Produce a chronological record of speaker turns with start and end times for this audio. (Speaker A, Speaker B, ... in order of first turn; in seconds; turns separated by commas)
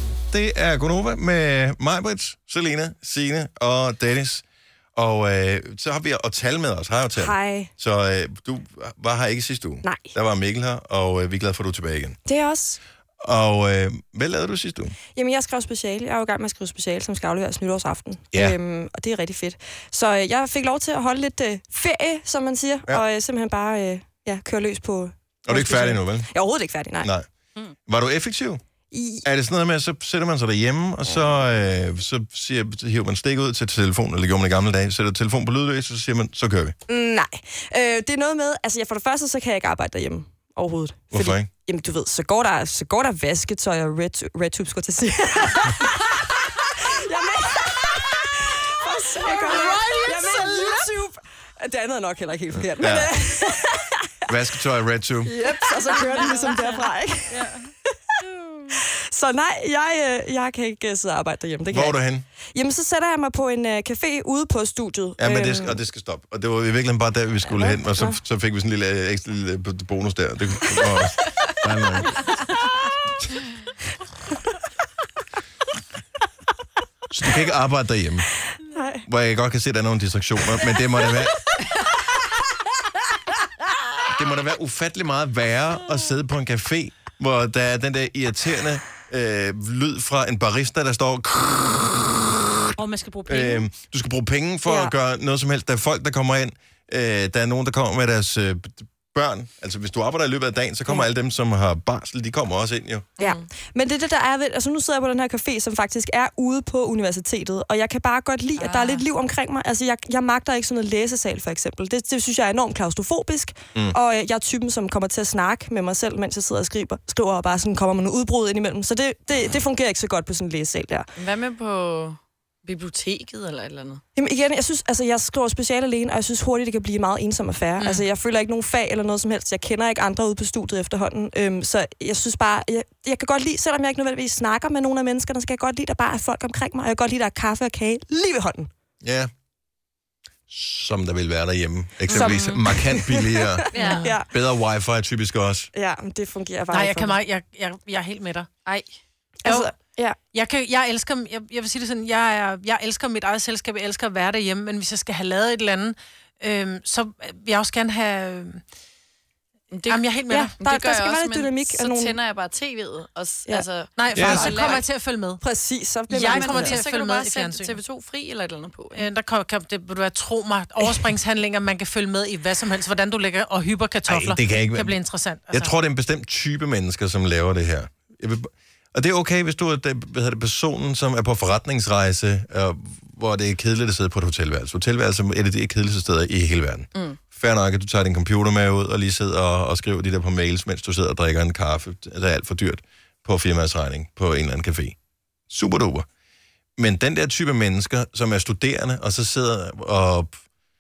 Speaker A: 0.3-4.4, Speaker A: 5.0-12.2, Speaker B: 7.2-7.7, Speaker B: 9.8-10.1, Speaker B: 12.3-12.8, Speaker A: 13.2-15.0, Speaker B: 15.1-27.1, Speaker A: 25.5-26.3, Speaker A: 27.0-27.3, Speaker A: 27.9-28.6, Speaker B: 28.9-29.3, Speaker A: 29.2-36.8, Speaker B: 36.9-54.2, Speaker A: 41.1-41.5, Speaker C: 49.2-50.9, Speaker A: 52.8-53.2, Speaker A: 54.3-55.4, Speaker B: 55.2-58.0, Speaker C: 55.7-58.8, Speaker B: 58.7-62.0, Speaker A: 61.7-62.2, Speaker B: 62.5-65.8, Speaker A: 65.2-72.2, Speaker B: 67.6-68.2, Speaker A: 77.1-78.3, Speaker B: 78.6-79.0, Speaker A: 79.1-81.5, Speaker A: 84.1-92.0, Speaker D: 92.8-93.7, Speaker A: 93.3-103.1, Speaker B: 94.7-94.9, Speaker C: 103.2-103.5, Speaker B: 103.2-121.1, Speaker C: 108.6-109.0, Speaker C: 121.2-124.0, Speaker B: 124.2-138.7, Speaker A: 139.0-139.3, Speaker A: 140.5-143.7, Speaker C: 142.1-142.6, Speaker B: 142.1-144.3, Speaker C: 143.7-144.1, Speaker D: 143.8-144.2, Speaker A: 144.3-145.7, Speaker B: 145.7-147.2, Speaker D: 146.7-148.5, Speaker C: 148.7-149.0, Speaker B: 149.4-150.2, Speaker D: 149.4-149.7, Speaker D: 150.3-158.6, Speaker C: 159.7-164.9, Speaker D: 159.9-160.6, Speaker B: 160.3-162.2, Speaker D: 164.0-165.4, Speaker A: 164.1-164.6, Speaker B: 164.2-164.7, Speaker B: 165.4-166.8, Speaker D: 166.1-167.8, Speaker C: 166.2-169.1, Speaker D: 168.9-175.8, Speaker A: 174.1-175.0, Speaker A: 175.5-195.0, Speaker A: 195.5-196.1, Speaker A: 196.8-200.4